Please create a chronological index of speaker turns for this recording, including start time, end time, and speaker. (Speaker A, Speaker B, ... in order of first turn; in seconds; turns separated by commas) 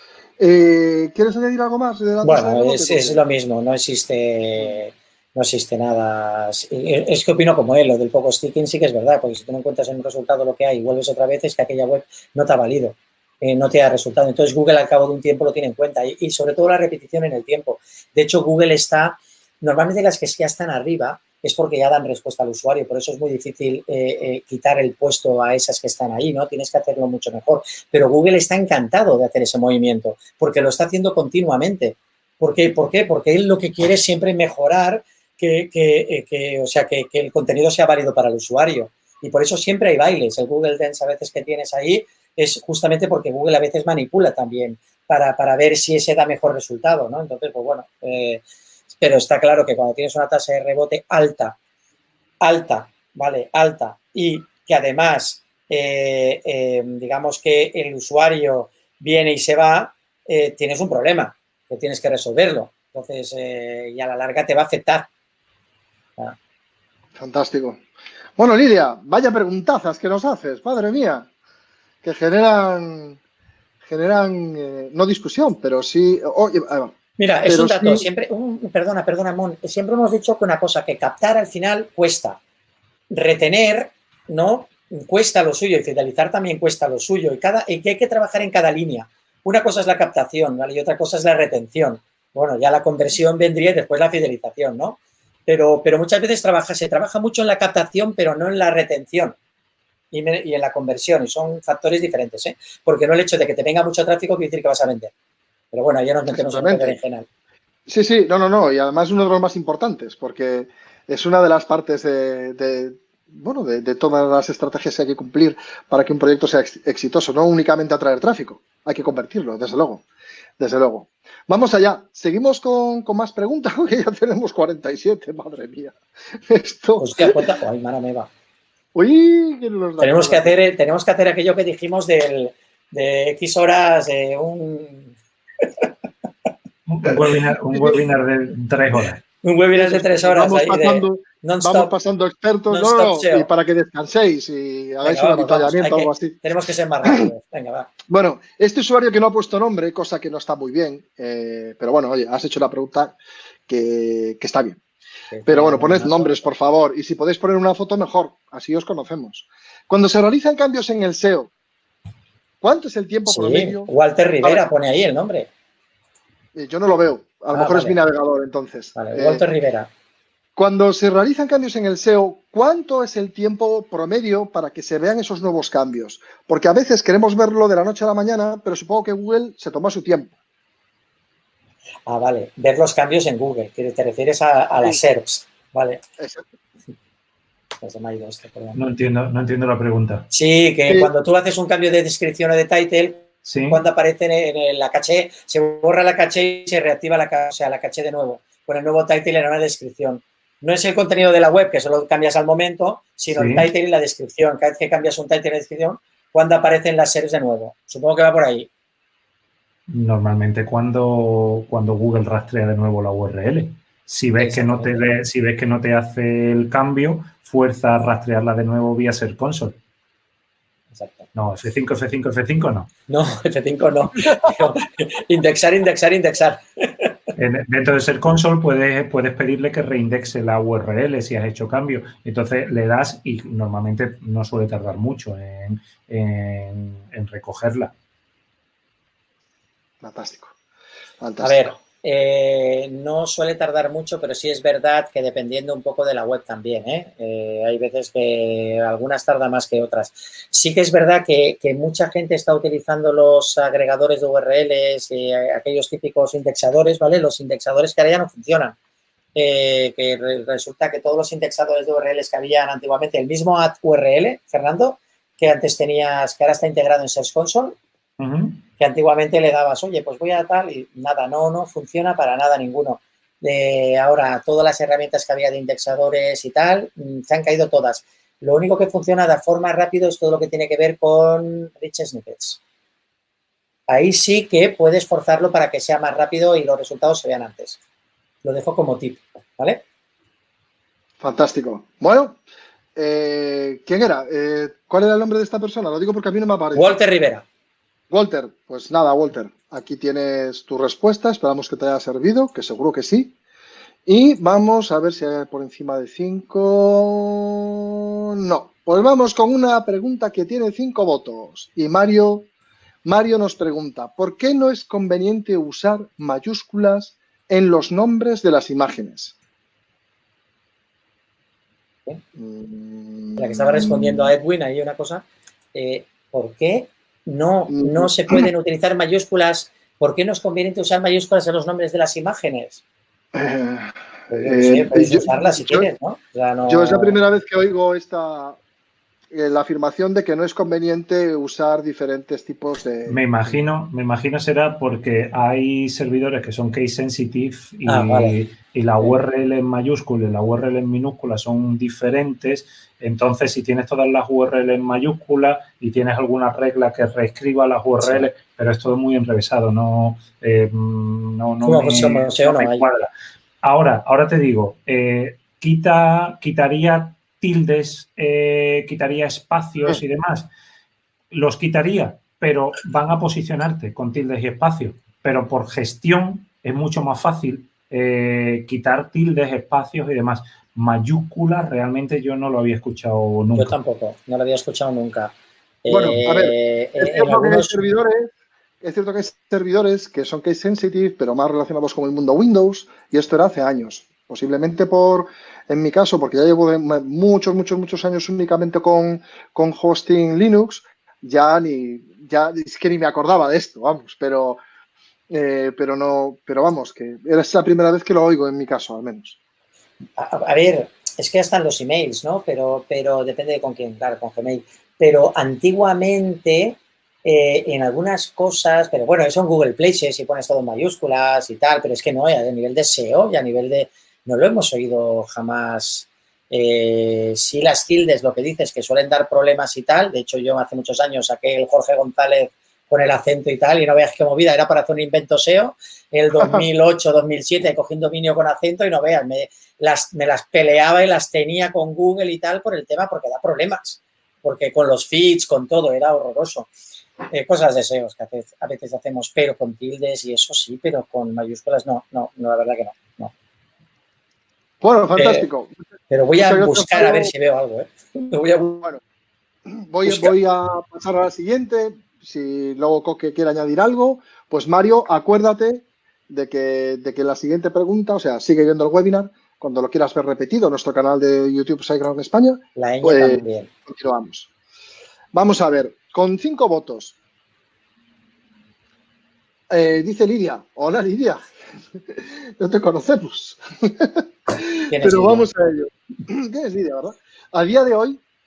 Speaker A: 0.4-3.2, Speaker B: 2.2-48.4, Speaker B: 49.0-51.6, Speaker B: 52.4-65.1, Speaker A: 67.2-67.8, Speaker A: 68.4-71.3, Speaker A: 72.0-73.2, Speaker A: 73.9-77.0, Speaker B: 77.2-82.4, Speaker A: 77.5-78.1, Speaker B: 83.1-99.4, Speaker B: 100.1-105.1, Speaker B: 105.7-107.3, Speaker A: 106.3-107.0, Speaker A: 107.9-120.0, Speaker A: 120.6-126.0, Speaker A: 126.5-127.4, Speaker B: 127.0-128.3, Speaker A: 128.9-130.5, Speaker B: 130.0-135.9, Speaker C: 136.9-139.2, Speaker B: 139.4-141.9, Speaker A: 139.7-146.4, Speaker B: 142.7-143.5, Speaker B: 145.0-147.9, Speaker A: 148.1-153.2, Speaker A: 153.7-154.8, Speaker B: 155.3-156.4, Speaker A: 155.5-161.5, Speaker A: 162.6-163.9, Speaker B: 163.3-165.5, Speaker A: 166.6-169.4, Speaker B: 167.5-168.0, Speaker B: 168.9-169.9, Speaker A: 170.6-180.3, Speaker B: 182.1-186.0, Speaker A: 186.2-186.5, Speaker B: 187.8-188.8, Speaker C: 188.7-190.3, Speaker B: 190.3-208.7, Speaker C: 193.5-193.8, Speaker C: 203.3-203.7, Speaker C: 209.9-219.8, Speaker B: 214.4-215.1, Speaker B: 220.9-221.3, Speaker C: 221.3-222.9, Speaker B: 223.1-227.1, Speaker C: 227.4-237.9, Speaker A: 240.0-240.6, Speaker A: 241.2-241.8, Speaker B: 241.4-258.8, Speaker B: 259.4-267.8, Speaker C: 268.2-268.6, Speaker B: 268.8-282.6, Speaker B: 283.9-287.8, Speaker B: 288.4-289.8, Speaker A: 291.2-292.4, Speaker A: 293.0-297.0, Speaker B: 296.8-297.4, Speaker A: 298.1-303.4, Speaker A: 304.1-312.5, Speaker A: 313.1-319.4, Speaker A: 322.4-324.3, Speaker B: 323.4-332.8, Speaker A: 327.7-328.5, Speaker A: 333.3-335.9, Speaker B: 334.4-337.2, Speaker A: 336.7-338.6, Speaker A: 339.3-343.6, Speaker C: 343.1-363.1, Speaker B: 347.9-348.4, Speaker B: 358.0-358.3, Speaker B: 361.6-362.9, Speaker C: 363.6-370.5, Speaker C: 371.3-383.8, Speaker B: 383.6-385.3, Speaker B: 385.8-387.9, Speaker A: 385.9-388.3, Speaker A: 388.8-404.6, Speaker A: 405.3-409.4, Speaker B: 410.2-446.7, Speaker A: 436.4-436.6, Speaker B: 447.3-453.3, Speaker A: 454.8-455.8, Speaker B: 455.2-455.5, Speaker B: 456.1-458.9, Speaker A: 456.4-457.3, Speaker A: 459.7-474.5, Speaker B: 460.1-460.3, Speaker B: 472.8-473.7, Speaker A: 475.3-477.2, Speaker A: 479.7-481.4, Speaker A: 482.1-488.2, Speaker B: 484.9-485.5